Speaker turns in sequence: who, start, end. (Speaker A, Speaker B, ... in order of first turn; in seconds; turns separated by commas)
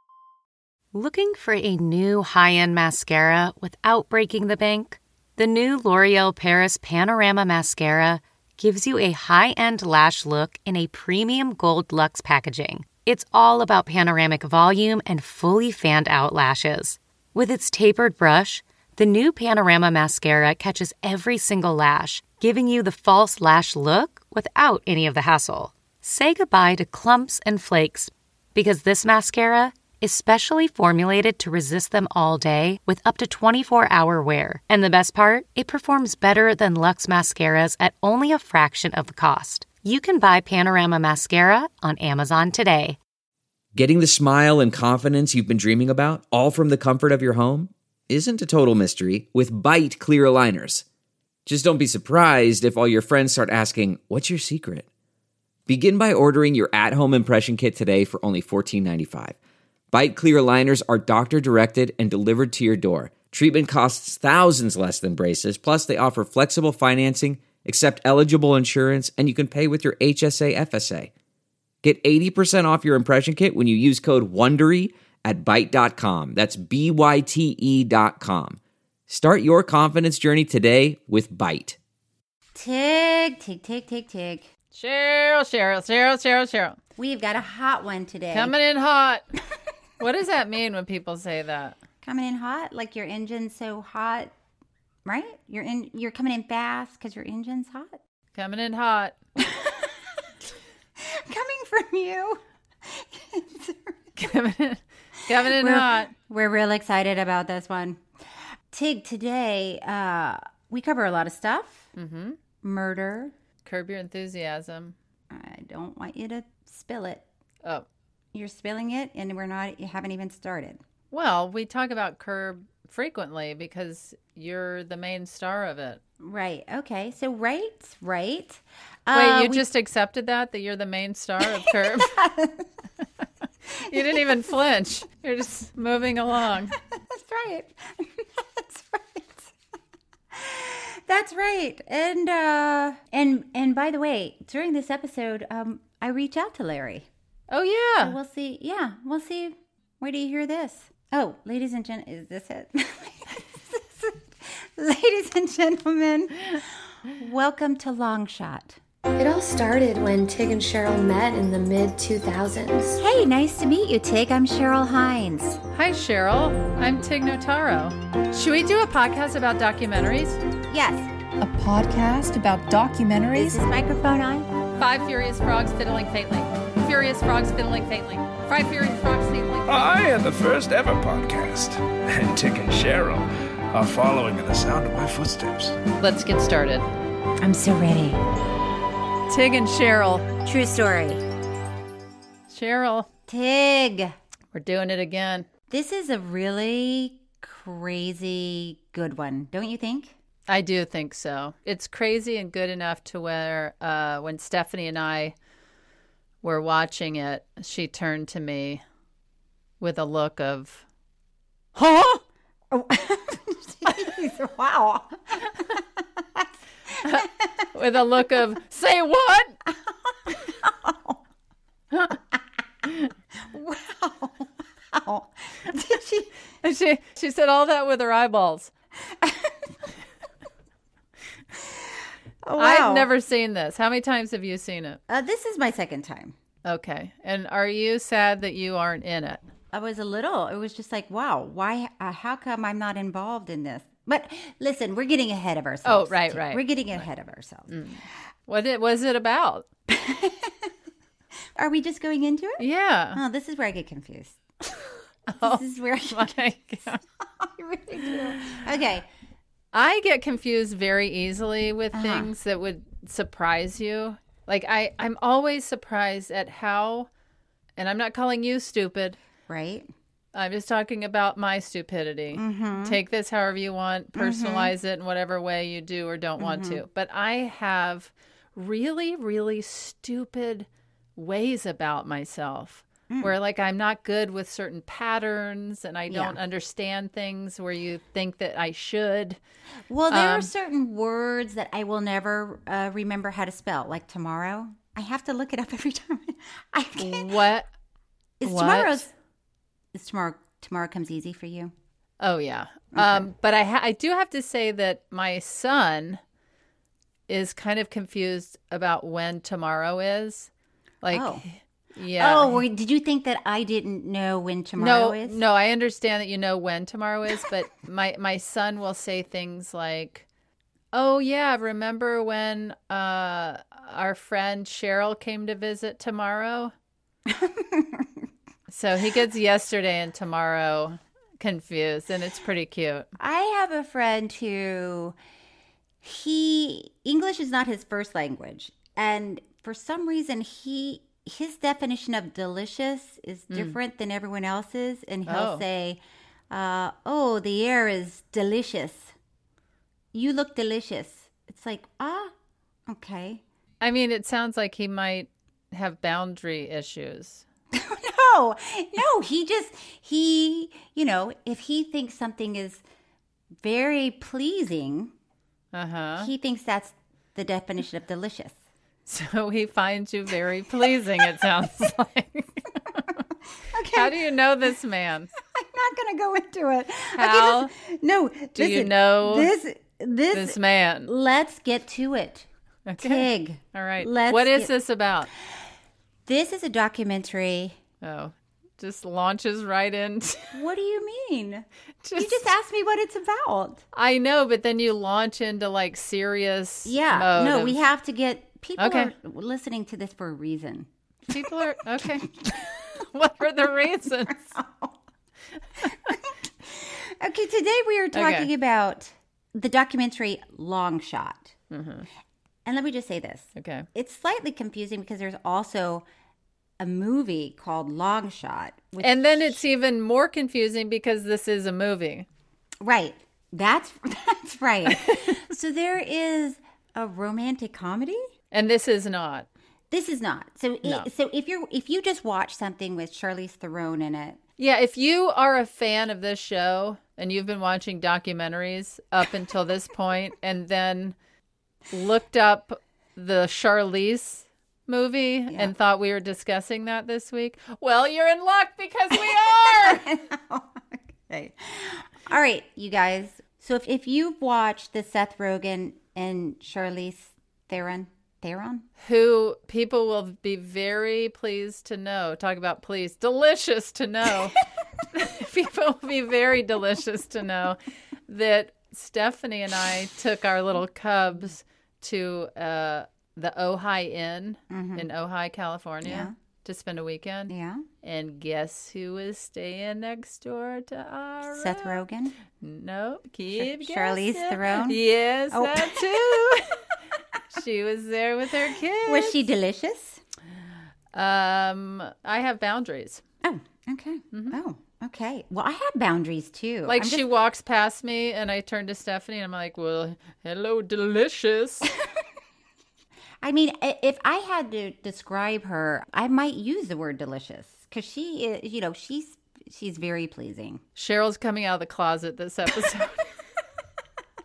Speaker A: 0.9-43.0, Speaker B: 43.7-50.8, Speaker B: 51.5-54.9, Speaker B: 55.7-59.4, Speaker B: 59.9-71.1, Speaker B: 71.8-81.8, Speaker C: 82.5-84.5, Speaker D: 84.7-86.8, Speaker C: 87.0-88.5, Speaker D: 88.3-89.2, Speaker D: 90.0-91.8, Speaker C: 92.0-94.3, Speaker C: 95.0-98.0, Speaker D: 98.3-99.2, Speaker C: 99.4-100.0, Speaker C: 101.0-104.0, Speaker D: 104.2-106.1, Speaker C: 105.3-108.0, Speaker C: 108.7-111.9, Speaker D: 112.0-112.4, Speaker C: 112.6-113.3, Speaker D: 113.6-114.9, Speaker C: 115.3-117.2, Speaker C: 118.3-120.8, Speaker D: 121.1-126.0, Speaker C: 126.2-129.7, Speaker D: 129.1-132.1, Speaker C: 131.4-132.7, Speaker C: 133.8-134.3, Speaker D: 133.9-136.7, Speaker C: 136.9-139.5, Speaker C: 140.3-147.1, Speaker D: 147.5-148.2, Speaker C: 148.0-158.8, Speaker E: 159.2-163.0, Speaker C: 163.0-165.6, Speaker D: 165.7-170.4, Speaker C: 170.7-171.1, Speaker F: 171.4-173.6, Speaker C: 173.3-174.5, Speaker D: 174.8-179.9, Speaker G: 179.7-185.8, Speaker D: 186.0-186.8, Speaker C: 187.4-188.2, Speaker D: 189.3-190.3, Speaker C: 190.4-191.2, Speaker D: 192.5-193.1, Speaker C: 193.3-194.1, Speaker D: 194.5-195.5, Speaker C: 195.7-200.1, Speaker D: 200.5-205.3, Speaker D: 206.4-208.8, Speaker D: 209.8-210.8, Speaker D: 211.8-212.2, Speaker C: 212.7-216.5, Speaker D: 217.0-219.6, Speaker C: 219.9-221.2, Speaker C: 223.4-226.3, Speaker D: 226.6-228.7, Speaker C: 229.1-229.6, Speaker C: 232.4-233.1, Speaker D: 232.6-235.0, Speaker C: 235.1-236.3, Speaker D: 236.6-239.4, Speaker C: 239.7-247.8, Speaker D: 245.8-246.7, Speaker D: 247.7-249.7, Speaker C: 249.9-250.7, Speaker C: 251.6-254.4, Speaker D: 252.6-253.2, Speaker D: 255.3-257.0, Speaker C: 255.4-256.5, Speaker C: 257.2-259.1, Speaker D: 259.7-267.1, Speaker C: 261.9-262.3, Speaker D: 267.8-269.2, Speaker C: 269.5-269.9, Speaker D: 270.3-289.4, Speaker C: 272.3-273.0, Speaker C: 274.1-274.7, Speaker C: 276.4-276.8, Speaker C: 283.1-283.3, Speaker C: 286.1-286.4, Speaker C: 289.9-297.4, Speaker D: 290.1-290.5, Speaker D: 297.0-297.7, Speaker C: 298.4-299.1, Speaker D: 298.4-299.1, Speaker C: 299.9-301.7, Speaker D: 302.2-306.2, Speaker C: 302.9-303.3, Speaker D: 307.3-310.5, Speaker D: 311.0-312.6, Speaker C: 311.1-311.4, Speaker C: 312.1-315.4, Speaker D: 314.8-320.2, Speaker D: 320.9-326.7, Speaker C: 327.3-328.2, Speaker D: 328.7-333.1, Speaker C: 333.2-335.1, Speaker C: 336.0-349.1, Speaker D: 343.5-343.8, Speaker D: 345.3-345.6, Speaker C: 350.1-352.3, Speaker C: 352.9-353.4, Speaker D: 353.8-357.4, Speaker C: 357.7-362.8, Speaker C: 363.6-365.1, Speaker D: 365.7-366.3, Speaker C: 366.2-368.6, Speaker D: 369.1-373.2, Speaker C: 373.7-374.3, Speaker D: 373.9-375.3, Speaker C: 375.4-382.5, Speaker D: 377.2-377.7, Speaker D: 378.6-379.5, Speaker D: 380.3-381.1, Speaker D: 382.9-385.3, Speaker C: 383.0-384.7, Speaker C: 386.2-387.8, Speaker D: 388.0-390.6, Speaker C: 390.5-393.8, Speaker D: 392.0-392.5, Speaker D: 393.9-397.8, Speaker C: 396.8-400.9, Speaker D: 398.8-399.1, Speaker D: 401.3-404.4, Speaker C: 402.0-402.7, Speaker C: 404.3-405.0, Speaker C: 405.9-411.5, Speaker D: 408.1-408.5, Speaker D: 411.7-412.1, Speaker C: 412.6-416.0, Speaker D: 413.6-413.9, Speaker C: 416.8-419.6, Speaker D: 419.0-422.2, Speaker C: 422.8-428.3, Speaker D: 424.9-425.3, Speaker D: 428.5-429.5, Speaker C: 429.9-434.4, Speaker D: 434.6-441.1, Speaker D: 441.9-450.0, Speaker C: 449.2-458.9, Speaker D: 459.0-464.6, Speaker D: 465.1-482.0, Speaker C: 474.7-475.1, Speaker C: 476.0-476.3, Speaker C: 477.5-477.8, Speaker C: 481.4-482.4, Speaker D: 482.6-486.7, Speaker C: 483.6-486.5, Speaker D: 487.5-489.4, Speaker C: 489.0-490.2, Speaker D: 491.1-493.2, Speaker C: 493.4-497.2, Speaker D: 494.3-494.6, Speaker D: 496.9-501.9, Speaker C: 503.4-510.8, Speaker D: 510.9-513.3